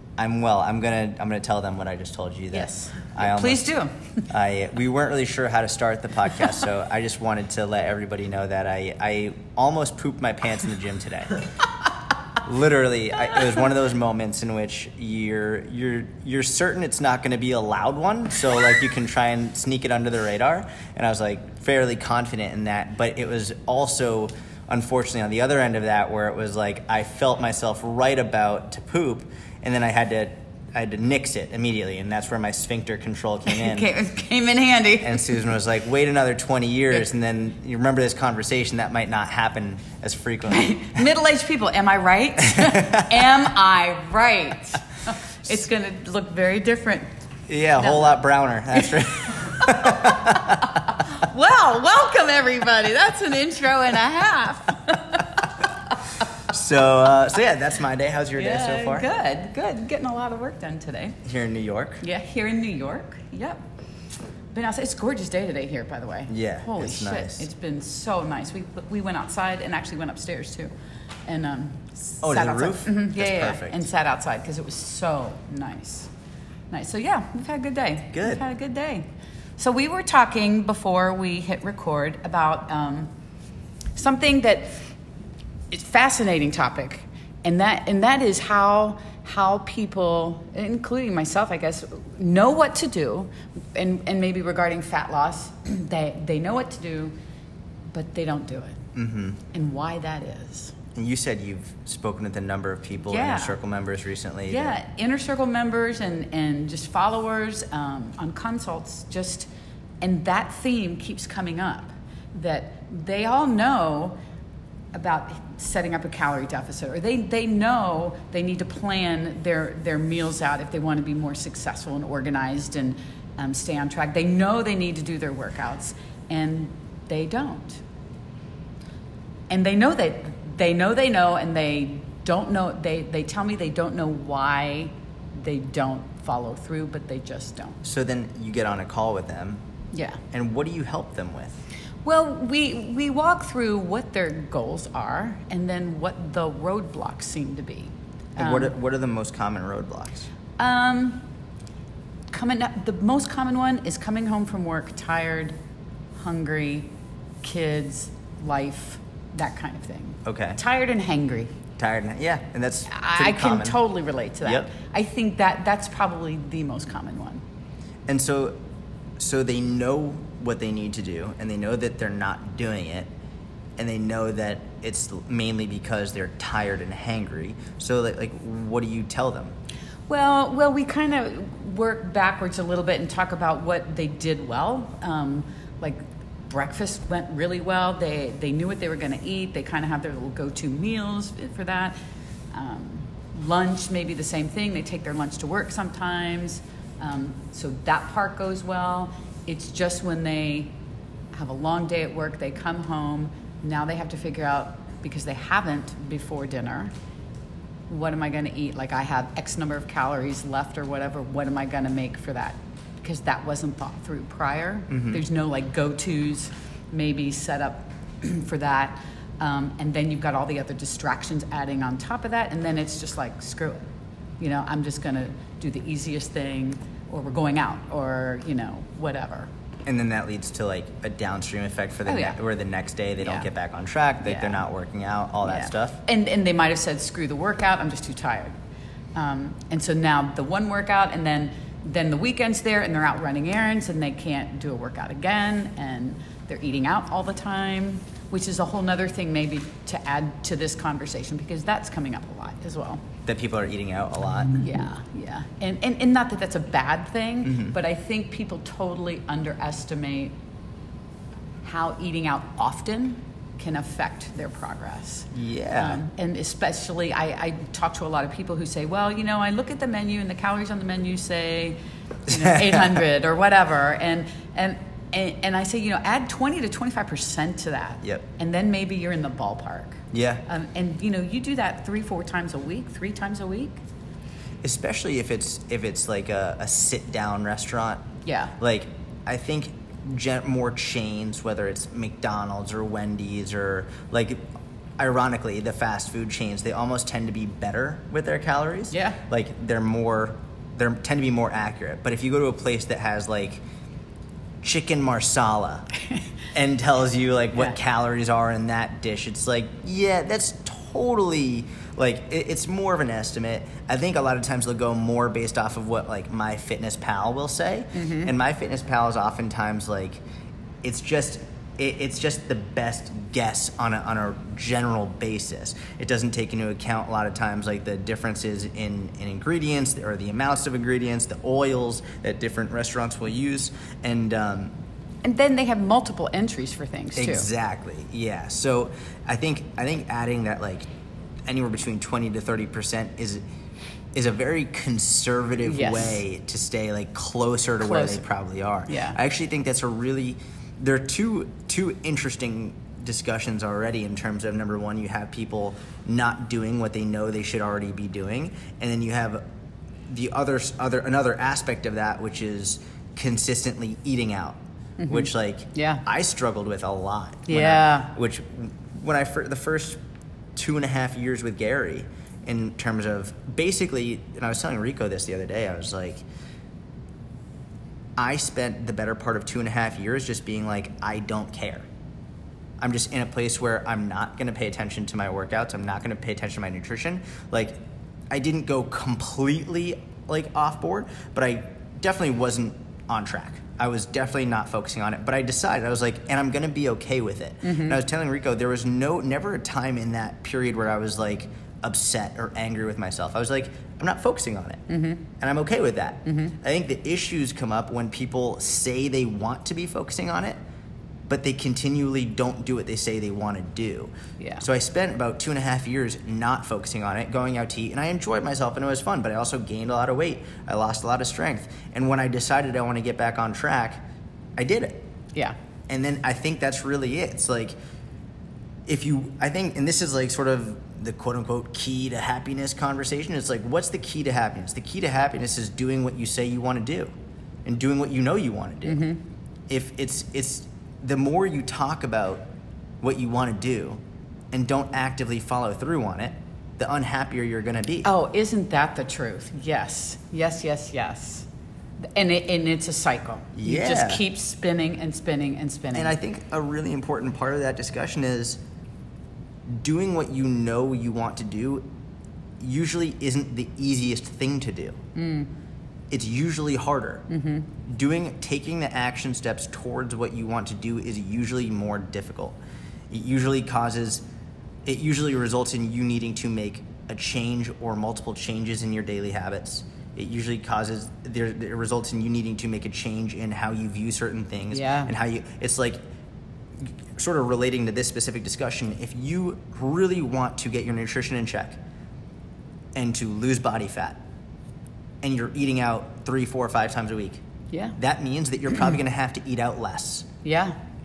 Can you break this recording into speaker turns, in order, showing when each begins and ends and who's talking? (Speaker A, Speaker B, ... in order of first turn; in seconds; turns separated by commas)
Speaker A: 0.2-3.7, Speaker B: 2.5-4.2, Speaker A: 4.3-11.4, Speaker A: 12.4-33.9, Speaker B: 33.5-35.4, Speaker A: 35.0-41.0, Speaker B: 40.5-47.1, Speaker A: 42.5-43.3, Speaker A: 47.5-50.8, Speaker B: 47.8-56.2, Speaker A: 56.4-59.1, Speaker B: 58.4-61.2, Speaker A: 61.2-62.0, Speaker B: 62.0-63.6, Speaker B: 64.5-70.7, Speaker A: 66.3-67.5, Speaker B: 71.2-76.1, Speaker A: 72.2-73.8, Speaker B: 76.7-83.1, Speaker A: 78.1-78.4, Speaker B: 84.0-84.9, Speaker B: 85.7-97.1, Speaker B: 97.9-98.8, Speaker A: 98.9-99.4, Speaker B: 99.5-100.7, Speaker A: 100.9-104.8, Speaker B: 103.1-103.6, Speaker B: 104.5-109.5, Speaker B: 110.0-114.2, Speaker B: 114.9-127.8, Speaker B: 129.5-137.8, Speaker A: 137.8-139.6, Speaker B: 139.9-140.2, Speaker A: 140.3-141.6, Speaker B: 142.0-148.7, Speaker A: 148.3-150.3, Speaker B: 150.6-151.3, Speaker B: 152.3-155.6, Speaker B: 156.1-156.9, Speaker B: 157.4-161.6, Speaker A: 160.2-160.6, Speaker A: 161.8-163.8, Speaker B: 162.9-167.4, Speaker A: 164.4-164.7, Speaker A: 168.1-168.6, Speaker A: 169.2-173.1, Speaker A: 173.8-179.5, Speaker B: 180.1-191.9, Speaker B: 192.5-200.7, Speaker B: 201.3-206.9, Speaker B: 207.9-223.8, Speaker A: 214.9-215.2, Speaker B: 224.4-229.5, Speaker A: 229.8-236.0, Speaker B: 232.1-232.3, Speaker B: 233.2-233.5, Speaker B: 234.2-234.6, Speaker B: 235.4-238.5, Speaker B: 239.1-253.0, Speaker A: 253.2-254.6, Speaker B: 254.5-260.3, Speaker A: 257.4-257.8, Speaker B: 261.6-283.8, Speaker A: 265.3-266.0, Speaker A: 272.3-273.0, Speaker A: 280.1-280.4, Speaker A: 284.6-303.6, Speaker B: 288.2-288.5, Speaker B: 298.9-299.2, Speaker A: 304.6-305.9, Speaker A: 306.5-320.2, Speaker B: 317.9-318.3, Speaker A: 320.8-334.7, Speaker B: 335.2-337.5, Speaker A: 337.1-340.9, Speaker A: 341.4-343.4, Speaker A: 344.1-359.4, Speaker B: 345.6-346.2, Speaker B: 347.8-348.2, Speaker B: 348.9-349.2, Speaker A: 360.1-370.0, Speaker B: 365.0-366.0, Speaker B: 367.5-368.1, Speaker A: 370.6-376.2, Speaker A: 378.2-381.8, Speaker A: 382.8-387.8, Speaker A: 388.3-404.8, Speaker B: 397.6-398.0, Speaker B: 404.9-405.2, Speaker A: 405.4-410.6, Speaker B: 406.2-406.6, Speaker A: 411.3-424.0, Speaker B: 414.4-414.6, Speaker A: 424.6-425.0, Speaker A: 425.9-427.7, Speaker A: 428.9-437.1, Speaker A: 437.6-439.1, Speaker B: 438.9-439.2, Speaker A: 439.7-442.4, Speaker A: 443.0-444.0, Speaker A: 444.5-448.1, Speaker B: 448.0-451.5, Speaker B: 452.0-456.2, Speaker A: 453.5-454.2, Speaker A: 455.9-458.6, Speaker A: 459.7-461.9, Speaker A: 462.6-465.0, Speaker B: 465.1-465.5, Speaker A: 466.1-467.2, Speaker B: 467.3-467.7, Speaker A: 467.8-472.6, Speaker A: 473.1-474.2, Speaker A: 474.8-486.0, Speaker B: 484.7-485.1, Speaker A: 486.8-491.8, Speaker A: 492.9-494.2, Speaker A: 495.2-497.4, Speaker B: 497.7-497.9, Speaker A: 497.9-500.3, Speaker B: 500.4-500.8